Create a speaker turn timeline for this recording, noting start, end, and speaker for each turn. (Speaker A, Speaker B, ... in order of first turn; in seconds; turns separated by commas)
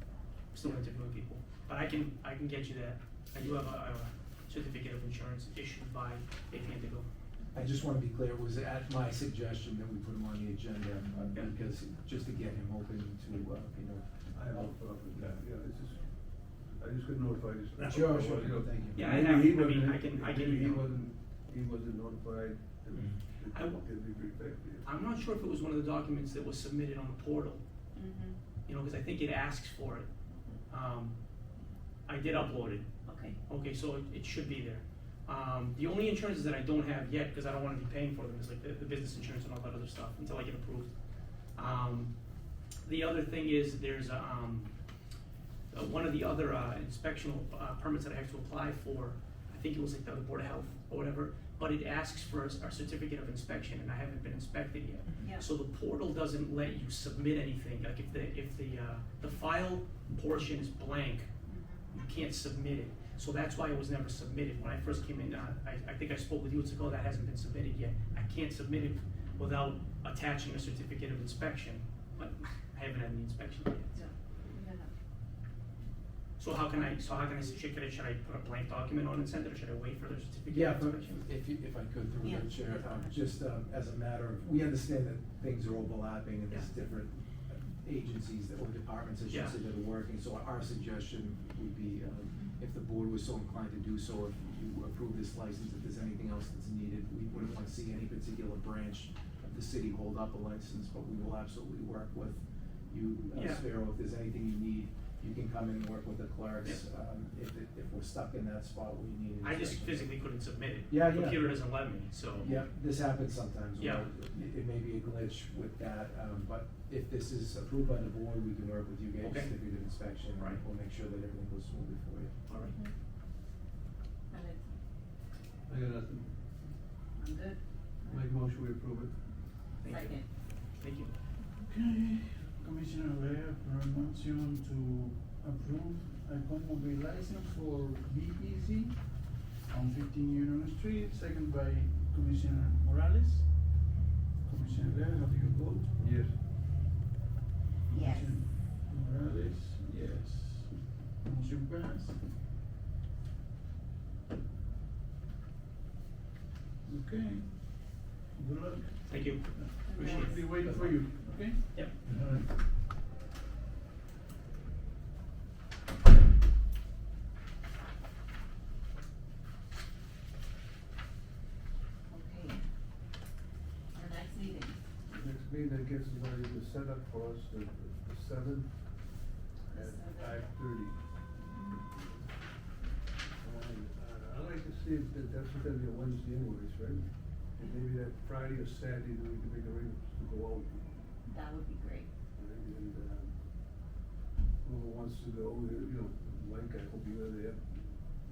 Speaker A: 0.5-7.1, Speaker B: 7.5-15.4, Speaker C: 14.3-16.1, Speaker C: 16.7-24.9, Speaker A: 17.8-18.4, Speaker B: 17.8-19.2, Speaker A: 18.9-20.9, Speaker B: 22.9-23.2, Speaker A: 23.5-23.8, Speaker A: 24.8-27.6, Speaker D: 27.9-28.4, Speaker A: 28.7-30.1, Speaker A: 30.7-31.2, Speaker A: 32.1-40.9, Speaker D: 33.0-33.4, Speaker A: 41.5-42.1, Speaker A: 42.8-44.8, Speaker A: 45.7-61.3, Speaker D: 55.2-55.5, Speaker D: 61.5-61.9, Speaker A: 61.9-74.0, Speaker D: 73.9-74.9, Speaker A: 76.4-81.3, Speaker B: 80.5-110.1, Speaker D: 82.2-83.1, Speaker A: 89.3-89.6, Speaker A: 103.3-103.6, Speaker A: 109.4-112.5, Speaker B: 110.9-111.5, Speaker B: 112.3-122.3, Speaker A: 113.8-114.1, Speaker A: 119.2-119.6, Speaker A: 120.3-120.6, Speaker A: 122.5-122.8, Speaker D: 122.6-122.9, Speaker D: 124.3-124.8, Speaker C: 125.7-126.4, Speaker D: 127.2-128.2, Speaker C: 128.1-129.2, Speaker A: 129.8-131.1, Speaker D: 129.9-130.3, Speaker E: 131.7-143.8, Speaker E: 144.4-145.9, Speaker C: 146.0-146.3, Speaker E: 147.9-152.2, Speaker D: 147.9-148.5, Speaker E: 156.8-162.5, Speaker A: 159.1-160.4, Speaker D: 159.9-160.6, Speaker B: 160.6-161.0, Speaker D: 172.1-172.6, Speaker D: 173.9-174.8, Speaker C: 175.1-178.8, Speaker D: 179.7-180.4, Speaker C: 179.7-181.0, Speaker D: 181.4-181.8, Speaker C: 181.7-182.3, Speaker C: 183.4-190.9, Speaker D: 191.2-192.1, Speaker C: 192.3-193.3, Speaker C: 194.6-197.9